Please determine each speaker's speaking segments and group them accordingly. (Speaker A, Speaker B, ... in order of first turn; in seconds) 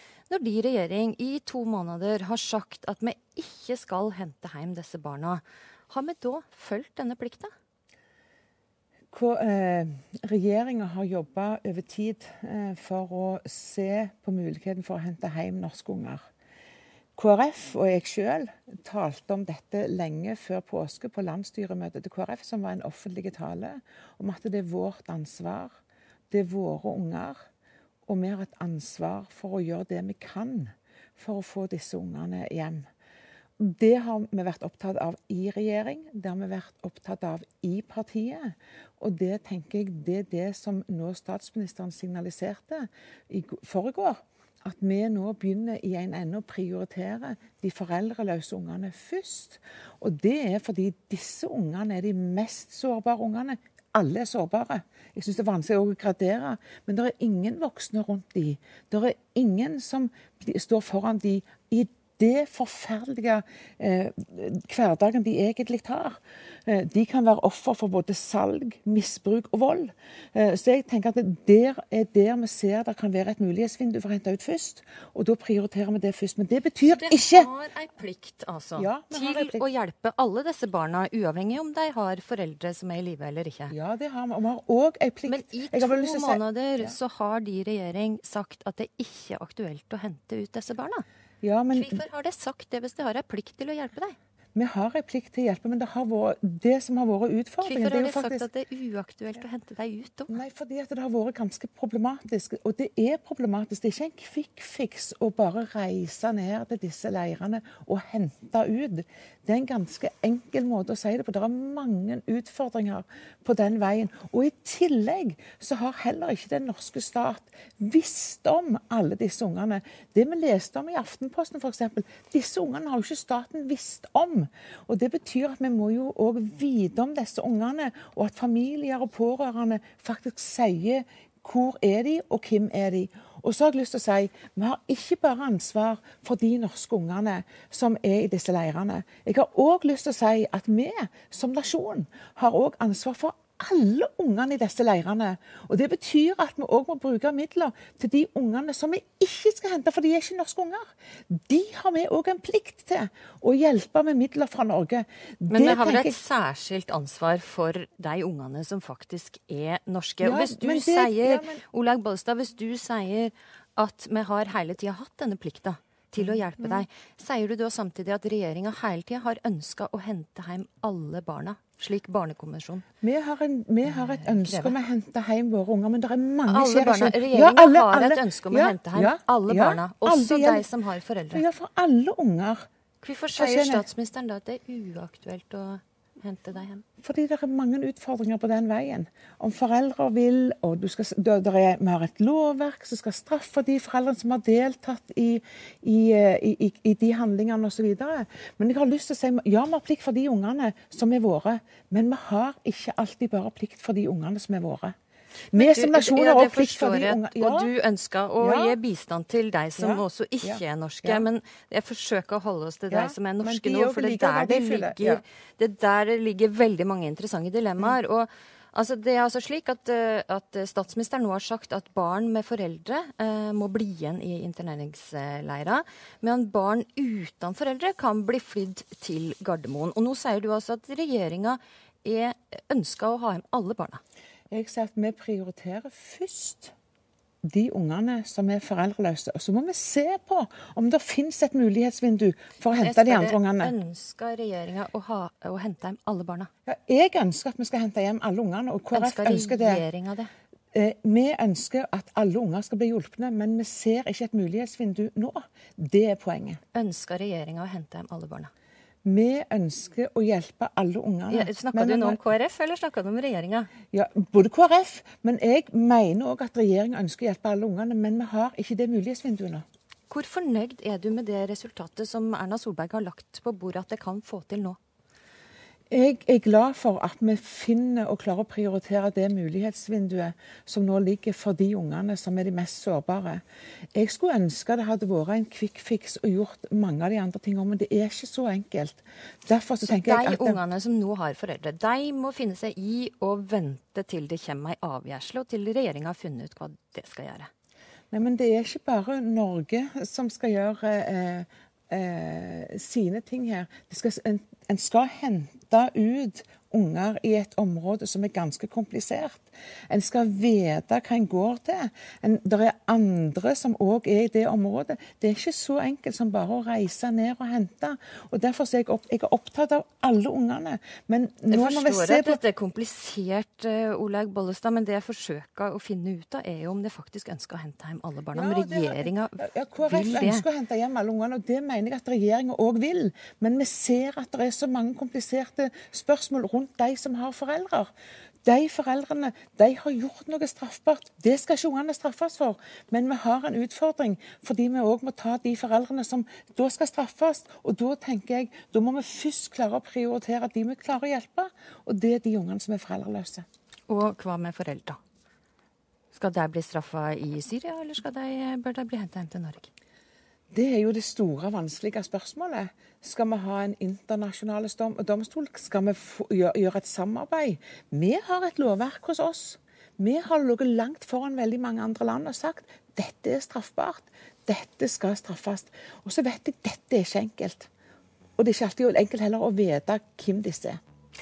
Speaker A: 0.3-7.5, 76.8-83.7, 85.3-91.0, 91.7-94.1, 97.6-100.4, 155.5-172.8, 173.9-174.8, 176.5-181.4, 183.0-186.8, 205.5-234.0, 242.7-246.5, 248.9-250.3, 256.7-258.5, 261.3-263.7, 270.1-274.8, 289.8-297.5, 321.5-330.4, 353.9-355.0, 356.1-359.7
Speaker B: 9.1-16.2, 17.1-25.8, 26.3-27.4, 28.1-32.9, 33.6-77.5, 78.8-79.6, 83.7-87.0, 91.4-92.0, 94.5-98.5, 100.3-156.2, 160.2-161.6, 166.2-166.8, 173.0-180.7, 181.3-182.7, 183.3-183.8, 187.0-204.9, 205.5-207.7, 208.4-208.8, 209.8-211.2, 212.9-215.2, 234.5-236.7, 237.4-243.7, 246.7-249.8, 250.7-256.6, 259.0-262.2, 263.9-269.6, 275.9-283.4, 283.9-290.6, 298.1-322.4, 328.3-337.9, 338.4-353.4, 360.5-377.7, 378.4-380.8